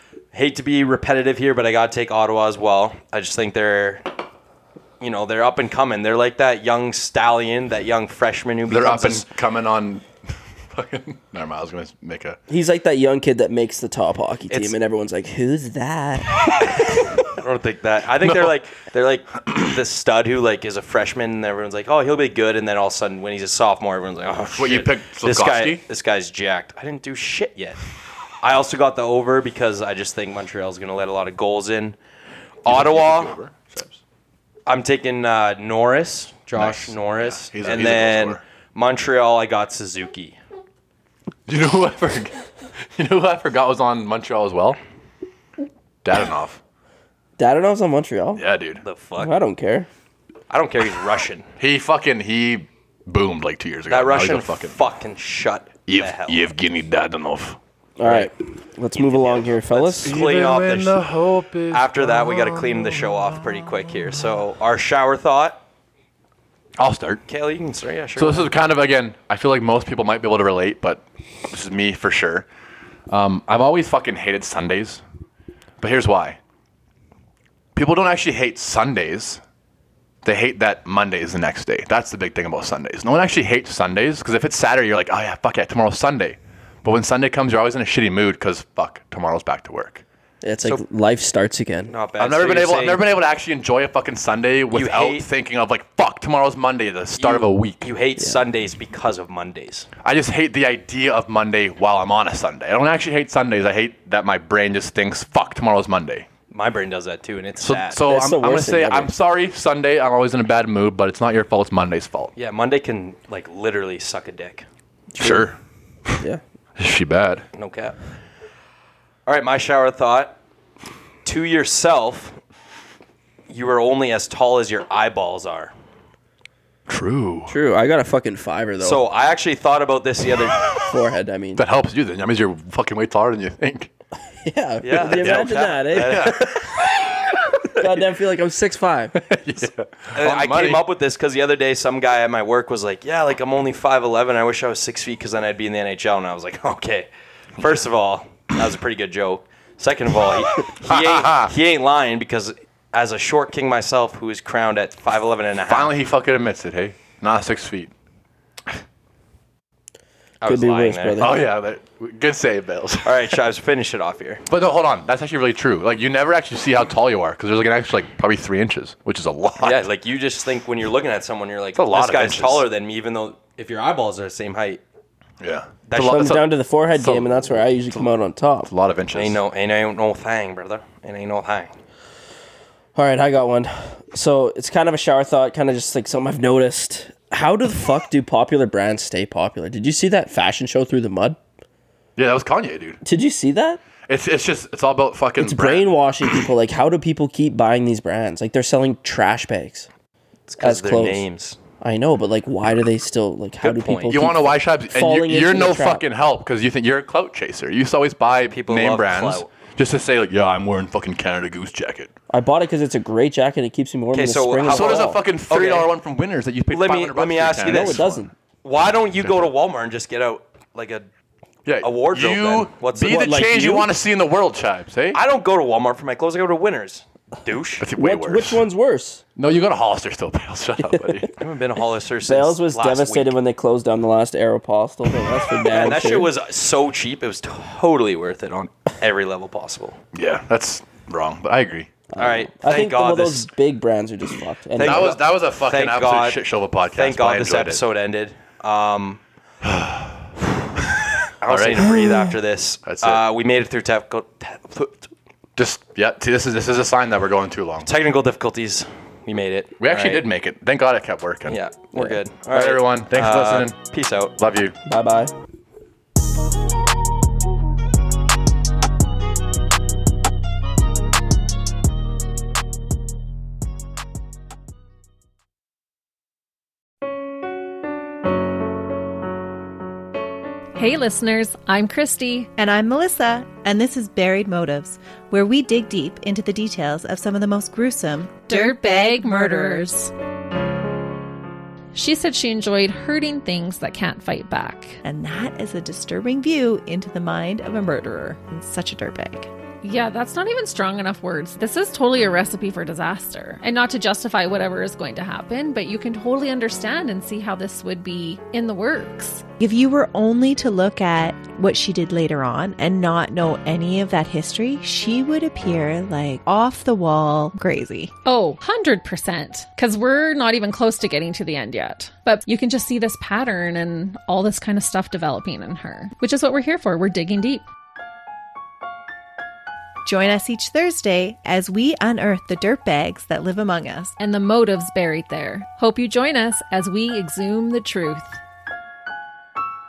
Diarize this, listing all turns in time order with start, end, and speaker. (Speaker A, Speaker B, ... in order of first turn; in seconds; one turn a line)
Speaker A: 0.3-4.1
Speaker A: 5.0-9.3
Speaker B: 8.7-10.1
Speaker B: 10.7-12.4
Speaker C: 12.5-16.5
Speaker A: 14.5-14.8
Speaker A: 17.2-27.8
Speaker B: 18.2-18.6
Speaker B: 24.6-25.8
Speaker A: 28.4-32.0
Speaker A: 32.6-33.4
Speaker B: 32.6-34.0
Speaker A: 34.7-40.4
Speaker B: 36.5-38.4
Speaker B: 41.5-42.4
Speaker B: 43.0-44.8
Speaker B: 46.0-46.6
Speaker C: 47.4-48.4
Speaker B: 48.4-48.8
Speaker A: 48.8-49.4
Speaker C: 49.2-49.9
Speaker A: 50.5-51.5
Speaker B: 51.6-54.8
Speaker A: 53.9-56.5
Speaker B: 55.9-57.6
Speaker C: 58.0-60.2
Speaker A: 58.0-58.3
Speaker A: 59.0-61.1
Speaker B: 60.0-63.9
Speaker A: 61.7-65.6
Speaker B: 66.8-67.2
Speaker A: 67.3-68.5
Speaker B: 68.2-72.5
Speaker B: 73.1-75.0
Speaker B: 75.8-76.4
Speaker B: 77.8-79.4
Speaker B: 80.2-90.0
Speaker C: 90.4-91.9
Speaker A: 91.9-93.0
Speaker B: 92.2-97.9
Speaker A: 94.7-95.3
Speaker A: 97.2-99.9
Speaker B: 100.0-106.3
Speaker A: 106.5-108.0
Speaker B: 107.6-112.3
Speaker C: 108.0-109.1
Speaker A: 112.4-114.7
Speaker C: 115.2-115.5
Speaker B: 115.2-115.6
Speaker B: 116.8-117.5
Speaker A: 117.6-118.0
Speaker A: 119.3-120.4
Speaker A: 121.2-122.4
Speaker A: 123.5-125.7
Speaker B: 126.9-127.5
Speaker C: 127.5-129.0
Speaker A: 128.8-130.6
Speaker C: 130.9-131.6
Speaker B: 131.6-133.9
Speaker C: 134.4-136.4
Speaker A: 134.8-136.6
Speaker B: 135.1-137.4
Speaker C: 137.8-139.2
Speaker B: 139.2-140.8
Speaker A: 140.1-155.9
Speaker B: 150.8-151.5
Speaker B: 155.7-157.9
Speaker A: 160.4-161.3
Speaker C: 160.5-161.4
Speaker B: 161.2-163.4
Speaker A: 163.0-164.4
Speaker B: 164.5-169.9
Speaker A: 169.6-174.8
Speaker B: 171.8-172.7
Speaker B: 175.4-178.1
Speaker A: 175.9-176.4
Speaker C: 176.0-178.7
Speaker B: 178.7-179.4
Speaker A: 179.1-181.7
Speaker C: 183.0-191.4
Speaker B: 192.2-193.0
Speaker C: 193.1-193.8
Speaker B: 194.1-195.9
Speaker C: 195.4-199.9
Speaker A: 200.5-201.6
Speaker C: 200.6-201.2
Speaker C: 201.8-206.1
Speaker A: 203.6-204.2
Speaker B: 204.1-212.1
Speaker A: 208.5-209.5
Speaker C: 212.3-215.1
Speaker A: 214.1-215.9
Speaker B: 214.7-218.3
Speaker A: 216.7-218.0
Speaker C: 217.7-218.3
Speaker A: 218.6-221.1
Speaker B: 221.7-225.2
Speaker A: 221.8-223.4
Speaker C: 223.1-223.9
Speaker A: 225.1-227.9
Speaker B: 227.8-228.6
Speaker C: 228.0-229.2
Speaker B: 229.4-231.3
Speaker A: 231.4-233.4
Speaker C: 232.3-236.3
Speaker A: 235.7-240.0
Speaker B: 240.1-241.9
Speaker C: 242.1-245.1
Speaker A: 242.2-243.5
Speaker A: 244.8-249.2
Speaker B: 244.8-247.8
Speaker B: 249.6-250.3
Speaker A: 251.4-255.1
Speaker B: 251.4-252.0
Speaker B: 252.8-253.2
Speaker B: 255.6-257.9
Speaker A: 257.9-260.2
Speaker B: 259.8-261.6
Speaker A: 261.5-264.4
Speaker B: 262.5-263.8
Speaker B: 264.4-264.8
Speaker C: 264.9-265.3
Speaker D: 280.8-282.5
Speaker E: 282.6-290.1
Speaker D: 288.5-289.9
Speaker D: 291.9-295.0
Speaker E: 295.0-299.5
Speaker D: 299.8-309.4
Speaker E: 309.6-318.1
Speaker D: 318.2-327.6
Speaker E: 330.1-334.2
Speaker D: 334.2-338.4